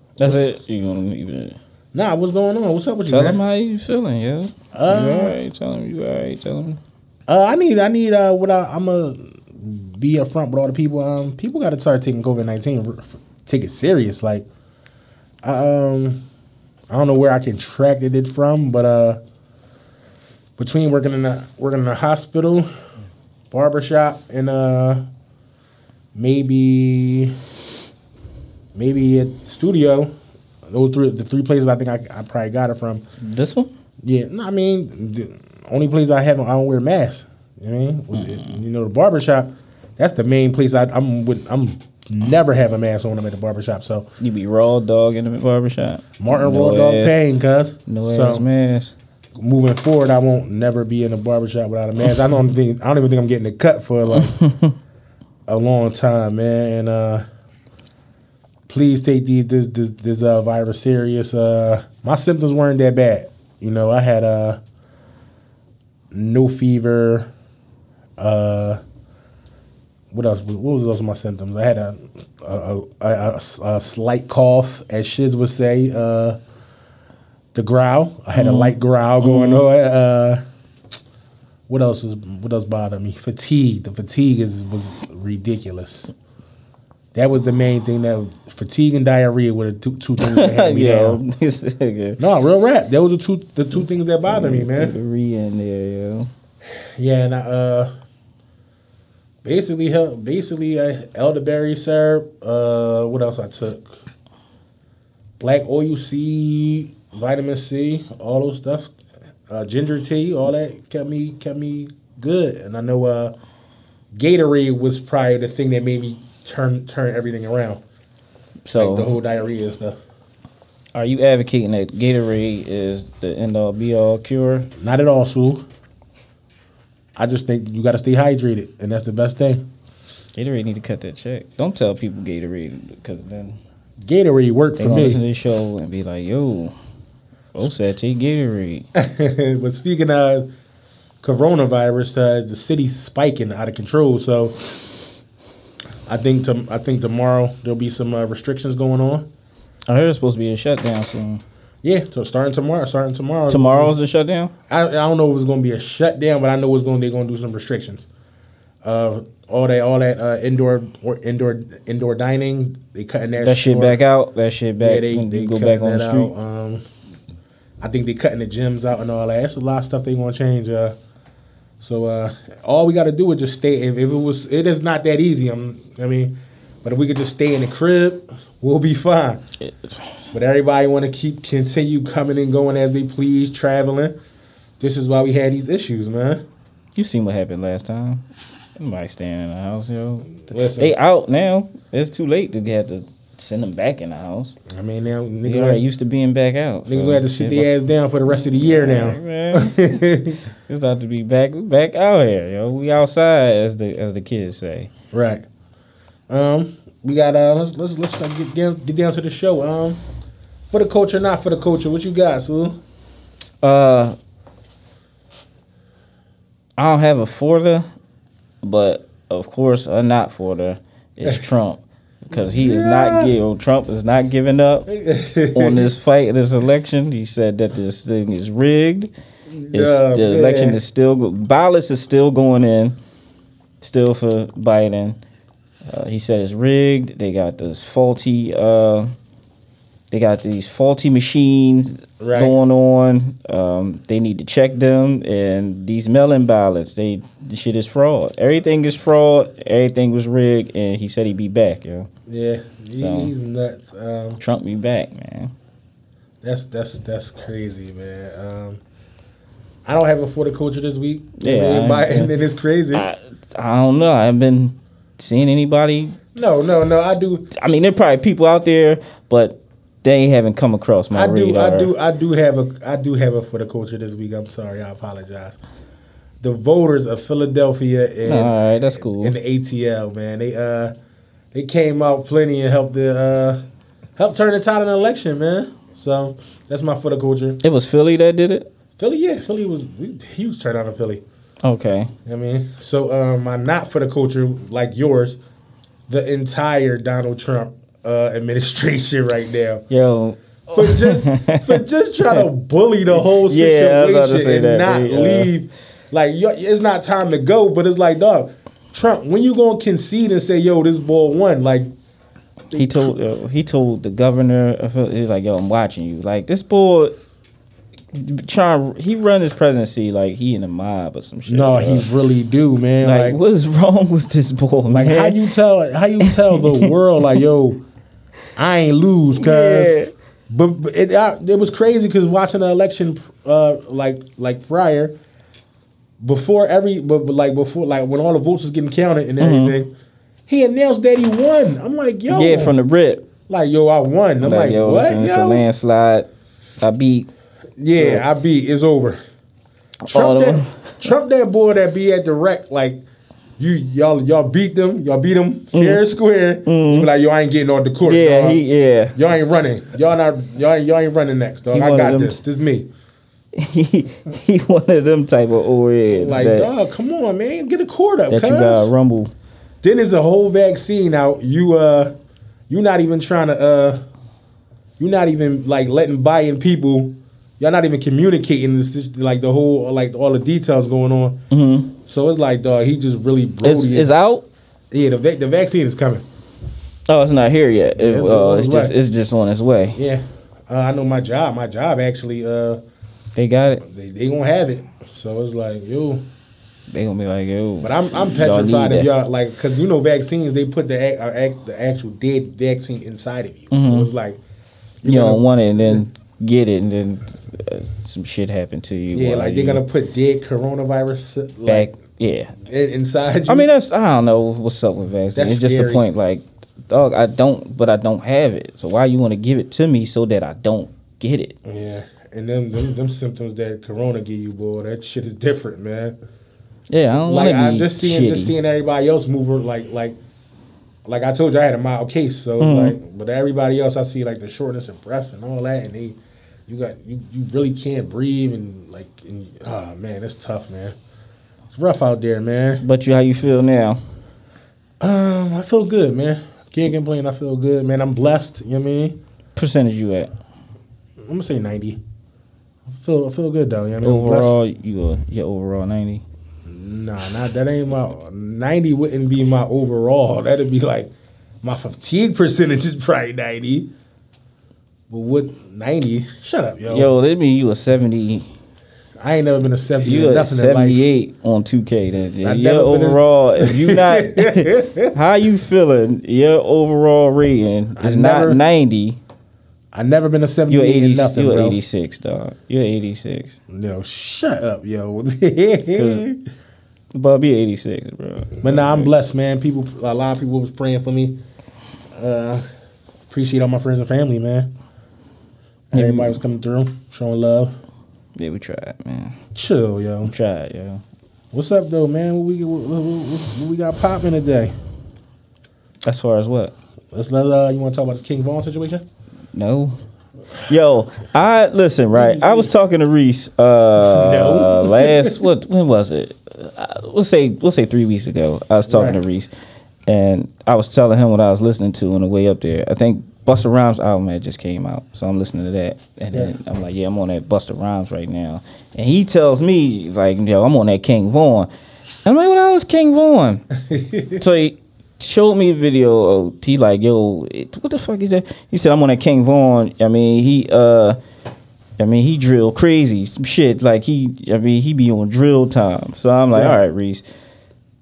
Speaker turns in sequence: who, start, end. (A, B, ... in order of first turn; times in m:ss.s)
0:00.2-0:01.6 A
0:00.2-0:00.5 B
0:01.9-0:03.4 B
0:03.1-0:06.8 A
0:04.7-0:05.4 B
0:07.3-0:14.4 B
0:15.4-0:16.2 B
0:16.9-0:19.2 B
0:20.6-0:22.7 B
0:23.5-0:25.1 B
0:26.1-0:27.4 B
0:28.7-0:30.1 B
0:30.7-0:33.0 B
0:33.2-0:33.7 A
0:34.0-0:44.1 B
0:38.1-0:38.5 A
0:44.2-0:47.2 A
0:46.2-0:48.4 B
0:47.9-0:48.9 A
0:49.4-0:54.4 B
0:54.1-0:54.7 A
0:55.5-0:57.2 B
0:58.7-1:04.6 B
1:06.1-1:07.3 B
1:08.2-1:08.8 B
1:10.1-1:16.4 B
1:17.5-1:20.4 B
1:18.3-1:19.6 A
1:21.7-1:26.1 B
1:27.1-1:31.2 B
1:30.2-1:32.2 A
1:32.2-1:34.9 B
1:34.2-1:36.3 A
1:37.0-1:37.9 B
1:39.4-1:44.0 B
1:45.4-1:48.9 B
1:49.5-1:53.4 B
1:54.1-1:57.8 B
1:58.6-1:59.1 A
1:58.8-2:00.0 B
2:00.9-2:04.7 A
2:04.8-2:05.6 B
2:07.2-2:09.7 B
2:10.4-2:13.6 A
2:14.0-2:15.2 B
2:14.8-2:16.7 A
2:17.5-2:18.8 A
2:18.9-2:20.5 B
2:21.2-2:24.8 B
2:26.1-2:29.3 B
2:29.9-2:31.4 A
2:31.8-2:33.9 B
2:33.5-2:34.5 A
2:34.7-2:38.1 B
2:38.8-2:44.0 B
2:43.4-2:46.3 A
2:44.8-2:46.8 B
2:47.8-2:51.0 B
2:51.8-2:59.4 B
2:59.6-3:00.0 A
3:00.3-3:04.2 B
3:04.8-3:06.4 B
3:07.0-3:08.2 A
3:08.8-3:14.6 A
3:10.4-3:11.0 B
3:14.7-3:15.8 B
3:15.4-3:17.7 A
3:16.9-3:20.4 B
3:18.6-3:20.0 A
3:20.7-3:24.9 A
3:25.1-3:25.4 B
3:26.3-3:30.0 B
3:30.7-3:32.8 B
3:33.6-3:34.2 A
3:36.8-3:37.9 A
3:38.6-3:44.9 A
3:42.3-3:43.4 B
3:44.9-3:45.9 B
3:45.5-3:49.1 A
3:49.5-3:50.8 B
3:49.7-3:53.0 A
3:53.8-3:55.2 A
3:55.9-3:59.1 A
4:00.1-4:12.1 A
4:02.2-4:02.6 B
4:12.3-4:14.4 B
4:13.0-4:13.3 A
4:14.4-4:15.5 A
4:16.4-4:18.8 B
4:19.8-4:23.1 B
4:21.4-4:22.3 A
4:22.9-4:26.2 A
4:26.3-4:27.5 B
4:27.5-4:31.9 A
4:31.1-4:35.6 B
4:36.4-4:40.9 B
4:38.2-4:39.3 A
4:41.5-4:43.6 B
4:44.2-4:47.6 B
4:47.6-4:48.7 A
4:49.0-4:51.2 B
4:51.6-4:52.1 A
4:52.2-4:55.4 B
4:56.1-4:59.8 B
4:59.9-5:02.4 A
5:00.7-5:11.9 B
5:03.1-5:05.5 A
5:12.7-5:13.2 B
5:12.7-5:17.2 A
5:18.1-5:22.1 A
5:21.5-5:23.4 B
5:23.0-5:25.4 A
5:24.9-5:27.8 B
5:26.2-5:26.9 A
5:28.6-5:35.2 B
5:29.4-5:30.1 A
5:36.2-5:39.9 B
5:39.4-5:39.8 A
5:40.5-5:42.8 B
5:42.3-5:43.3 A
5:43.5-5:45.6 B
5:44.4-5:46.3 A
5:46.8-5:47.3 A
5:47.8-5:49.2 B
5:47.9-5:48.2 A
5:50.0-5:51.0 A
5:50.1-5:53.0 B
5:53.6-5:58.6 B
5:55.7-5:56.0 A
5:56.6-5:57.1 A
5:58.0-5:59.2 A
5:59.1-6:02.9 B
6:01.7-6:02.4 A
6:03.5-6:06.7 A
6:06.1-6:08.9 B
6:08.3-6:09.3 A
6:09.8-6:12.1 B
6:12.7-6:14.0 B
6:15.0-6:21.4 B
6:21.5-6:21.9 A
6:22.0-6:24.1 B
6:23.6-6:24.4 A
6:24.9-6:26.2 B
6:27.1-6:30.0 A
6:28.0-6:28.9 B
6:29.9-6:32.8 B
6:33.3-6:33.8 A
6:33.8-6:36.2 B
6:36.9-6:39.1 A
6:37.8-6:44.4 B
6:43.7-6:44.1 A
6:45.0-6:46.0 B
6:45.0-6:49.8 A
6:49.1-6:51.9 B
6:51.6-6:52.5 A
6:52.6-6:53.7 B
6:53.5-7:01.6 A
6:55.3-6:56.0 B
7:01.6-7:06.2 B
7:06.9-7:08.5 A
7:07.2-7:10.2 B
7:11.0-7:20.9 B
7:12.6-7:13.0 A
7:21.7-7:22.8 B
7:22.8-7:24.0 A
7:25.0-7:29.2 B
7:29.6-7:30.3 A
7:31.2-7:32.0 B
7:32.9-7:34.6 B
7:34.0-7:36.2 A
7:36.6-7:41.1 B
7:41.6-7:43.9 B
7:45.1-7:47.1 B
7:46.9-7:48.5 A
7:49.2-7:51.0 B
7:50.0-7:59.2 A
7:52.4-7:55.1 B
7:58.0-7:58.6 B
7:59.9-8:01.8 B
8:00.7-8:03.6 A
8:03.7-8:06.4 B
8:05.9-8:06.2 A
8:07.1-8:09.1 A
8:08.6-8:11.4 B
8:12.1-8:12.6 B
8:13.3-8:14.7 B
8:15.9-8:17.7 B
8:15.9-8:16.4 A
8:18.4-8:19.4 A
8:19.5-8:20.3 B
8:20.2-8:21.0 A
8:21.5-8:24.7 B
8:26.0-8:26.7 A
8:27.1-8:29.0 B
8:29.5-8:30.0 A
8:30.7-8:39.5 A
8:32.1-8:32.7 B
8:34.0-8:35.3 B
8:38.9-8:39.2 B
8:40.1-8:51.7 A
8:52.2-8:53.6 A
8:53.8-8:54.4 B
8:54.4-9:01.2 A
9:02.0-9:07.2 A
9:06.5-9:06.8 B